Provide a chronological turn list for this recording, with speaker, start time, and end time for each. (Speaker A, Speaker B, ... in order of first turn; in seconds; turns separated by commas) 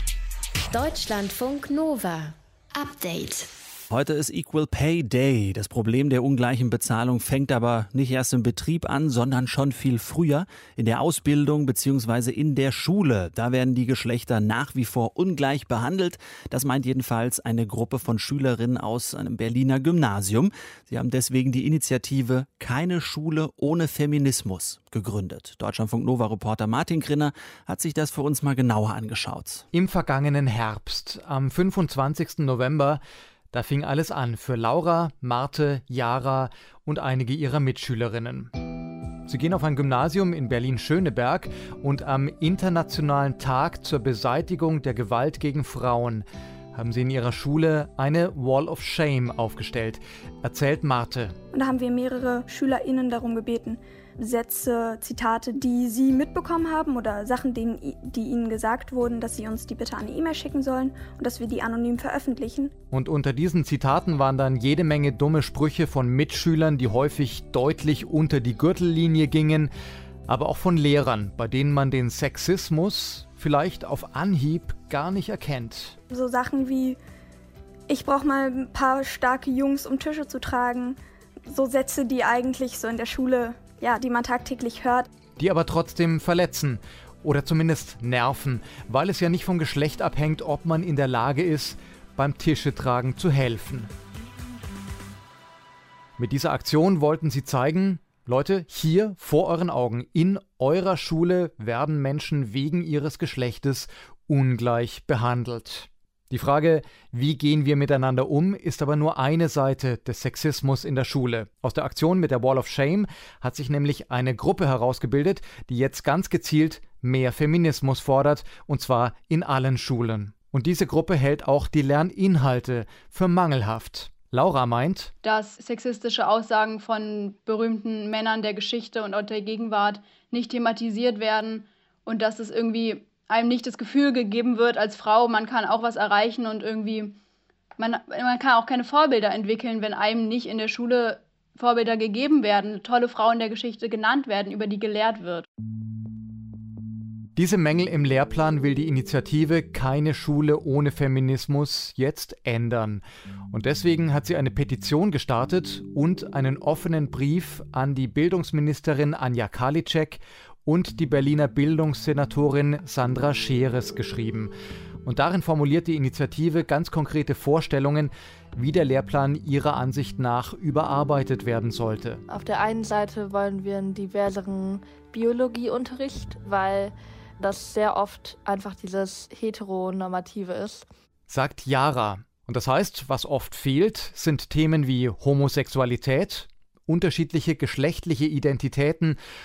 Speaker A: 0.7-3.5, Speaker B: 3.9-29.6, Speaker C: 29.7-33.0, Speaker C: 33.5-38.5, Speaker C: 39.3-51.4, Speaker D: 51.5-62.7, Speaker C: 62.9-69.7, Speaker C: 70.3-76.0, Speaker D: 76.1-77.0, Speaker D: 77.9-81.0, Speaker D: 81.5-85.1, Speaker C: 85.4-93.9, Speaker C: 96.2-125.1, Speaker E: 125.2-137.2, Speaker E: 137.8-145.4, Speaker C: 147.3-164.5, Speaker C: 165.0-172.2, Speaker F: 172.3-180.8, Speaker C: 181.3-189.2